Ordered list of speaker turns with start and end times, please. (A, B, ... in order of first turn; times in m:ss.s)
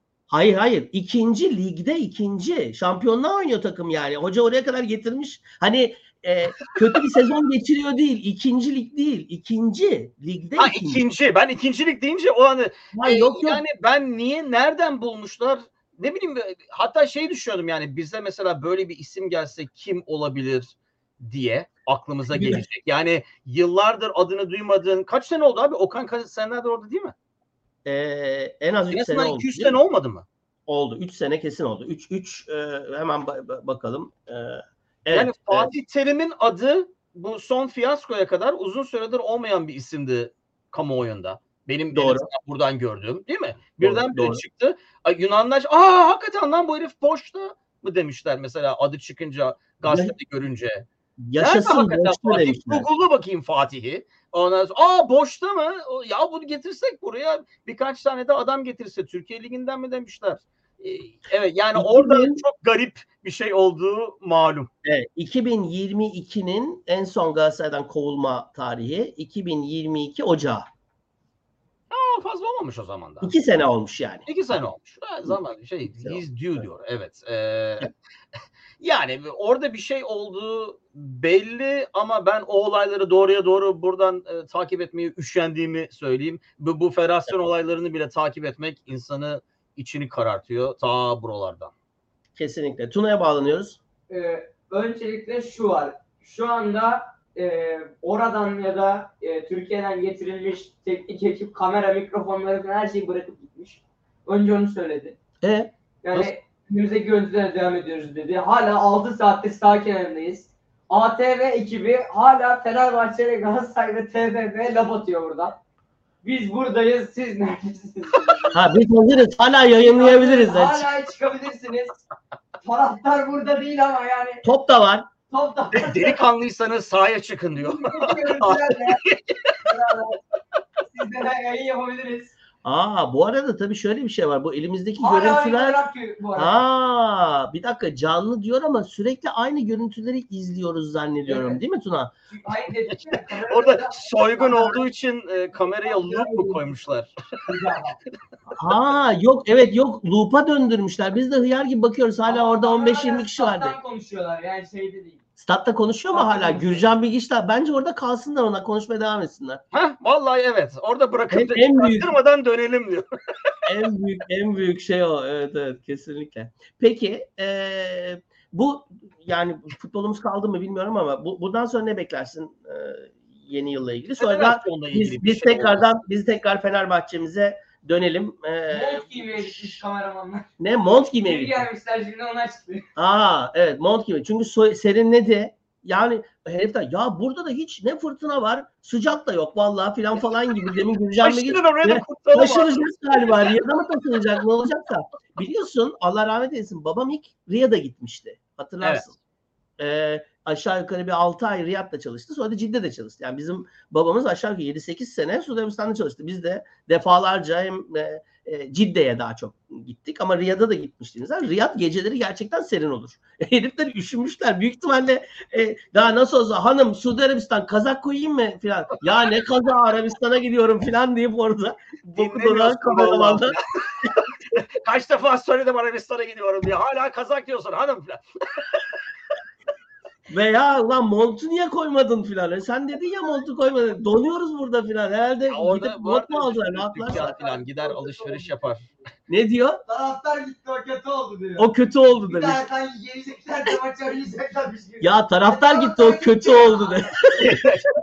0:00.3-0:11.0 A
0:10.6-0:27.2 B
0:12.9-0:13.6 A
0:22.3-0:22.6 A
0:27.8-0:29.8 A
0:28.9-0:30.3 B
0:30.7-0:35.7 A
0:35.1-1:04.7 B
0:41.9-0:42.3 A
0:43.8-0:44.4 A
0:49.8-0:50.1 A
0:51.2-0:52.9 A
1:01.8-1:02.4 A
1:04.8-1:10.7 A
1:11.9-1:13.3 B
1:13.2-1:14.3 A
1:14.3-1:17.9 B
1:15.9-1:16.2 A
1:18.8-1:31.7 B
1:32.4-1:33.8 A
1:34.1-1:45.2 C
1:45.4-1:46.3 A
1:46.0-1:55.6 C
1:56.2-1:58.6 C
1:58.5-2:00.9 A
1:59.8-2:02.0 C
2:02.6-2:04.4 C
2:04.4-2:05.1 A
2:05.3-2:06.2 C
2:05.7-2:09.6 B
2:07.6-2:09.0 C
2:09.6-2:10.2 C
2:10.8-2:12.4 C
2:12.6-2:15.8 A
2:15.0-2:16.6 C
2:16.4-2:22.1 A
2:21.3-2:21.6 C
2:22.3-2:24.8 C
2:23.1-2:27.1 B
2:25.6-2:26.7 C
2:27.4-2:28.0 C
2:28.6-2:33.8 A
2:32.3-2:35.2 C
2:35.4-2:39.6 A
2:36.1-2:36.8 C
2:39.7-2:43.6 B
2:41.3-2:42.1 A
2:43.7-2:59.7 A
2:54.2-2:55.9 B
2:58.7-3:00.5 C
3:00.6-3:01.6 A
3:01.2-3:02.9 C
3:03.0-3:19.2 A
3:11.2-3:13.5 B
3:19.8-3:43.6 A
3:42.2-3:48.9 B
3:50.3-3:57.4 A
3:55.5-3:58.9 B
3:57.1-3:58.9 C
3:59.3-3:59.8 A
3:59.9-4:07.3 C
4:01.6-4:02.6 A
4:05.0-4:07.6 A
4:07.4-4:07.9 B